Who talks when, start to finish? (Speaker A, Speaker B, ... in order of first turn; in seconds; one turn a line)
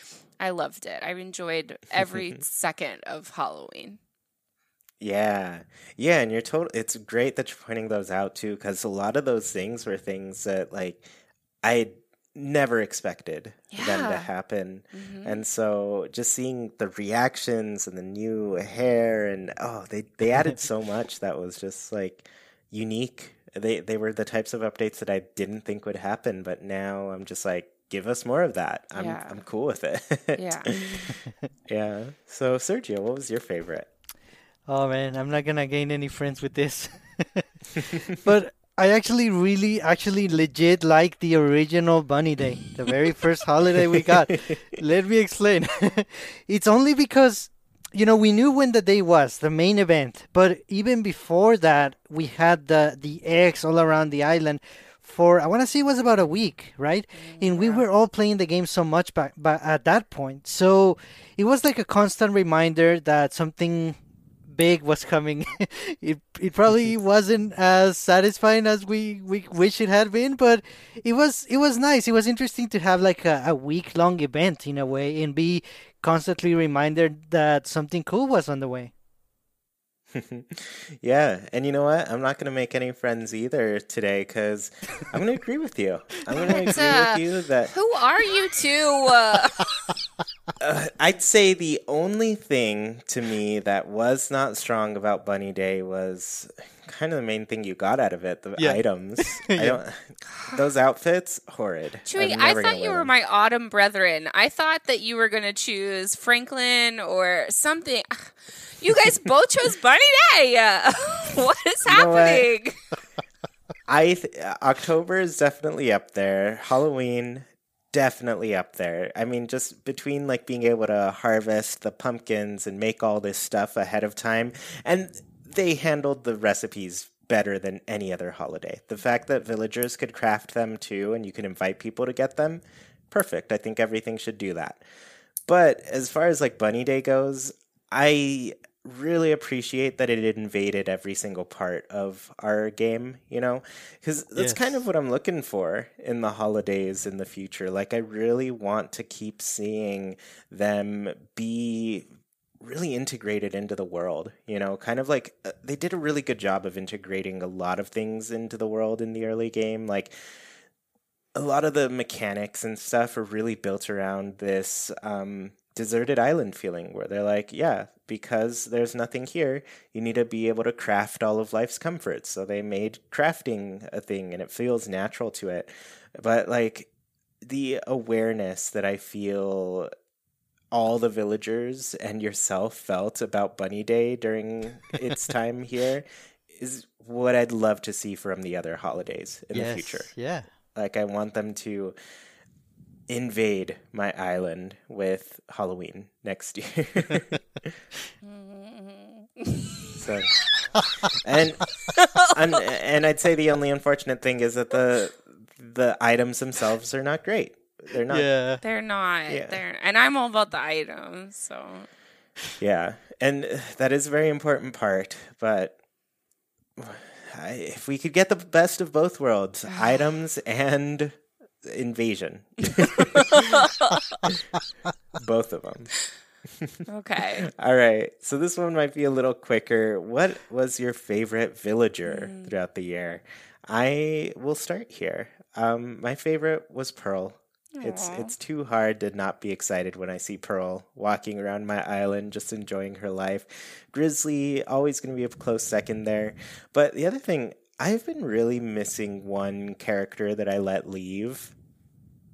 Speaker A: 0.4-4.0
Speaker B: 5.0-11.1
Speaker B: 11.6-31.1
Speaker A: 13.7-14.3
Speaker A: 14.9-15.4
Speaker A: 28.9-29.4
Speaker A: 30.4-31.1
Speaker B: 31.7-33.9
Speaker C: 34.7-78.9
Speaker B: 43.8-44.6
Speaker A: 57.2-57.9
Speaker B: 80.1-87.7
Speaker A: 86.3-89.9
Speaker B: 90.6-103.1
Speaker C: 98.6-99.8
Speaker A: 102.1-112.8
Speaker B: 111.8-112.5
Speaker B: 113.9-134.8
Speaker B: 135.5-152.1
Speaker C: 144.4-144.8
Speaker B: 152.6-160.1
Speaker B: 161.3-176.9
Speaker B: 177.4-179.9
Speaker B: 180.7-190.1
Speaker C: 189.5-190.5
Speaker B: 190.8-192.0
Speaker B: 193.1-197.8
Speaker A: 198.2-200.1
Speaker B: 200.0-200.3
Speaker B: 201.1-201.7
Speaker A: 201.9-202.6
Speaker B: 202.3-208.3
Speaker C: 208.1-208.6
Speaker A: 208.6-211.9
Speaker B: 209.3-209.6
Speaker B: 212.6-215.8
Speaker B: 216.8-223.6
Speaker A: 219.7-220.0
Speaker A: 223.0-224.3
Speaker B: 225.2-225.9
Speaker B: 226.6-226.8
Speaker A: 226.9-227.5
Speaker B: 227.4-251.5
Speaker A: 232.1-232.5
Speaker A: 237.8-238.3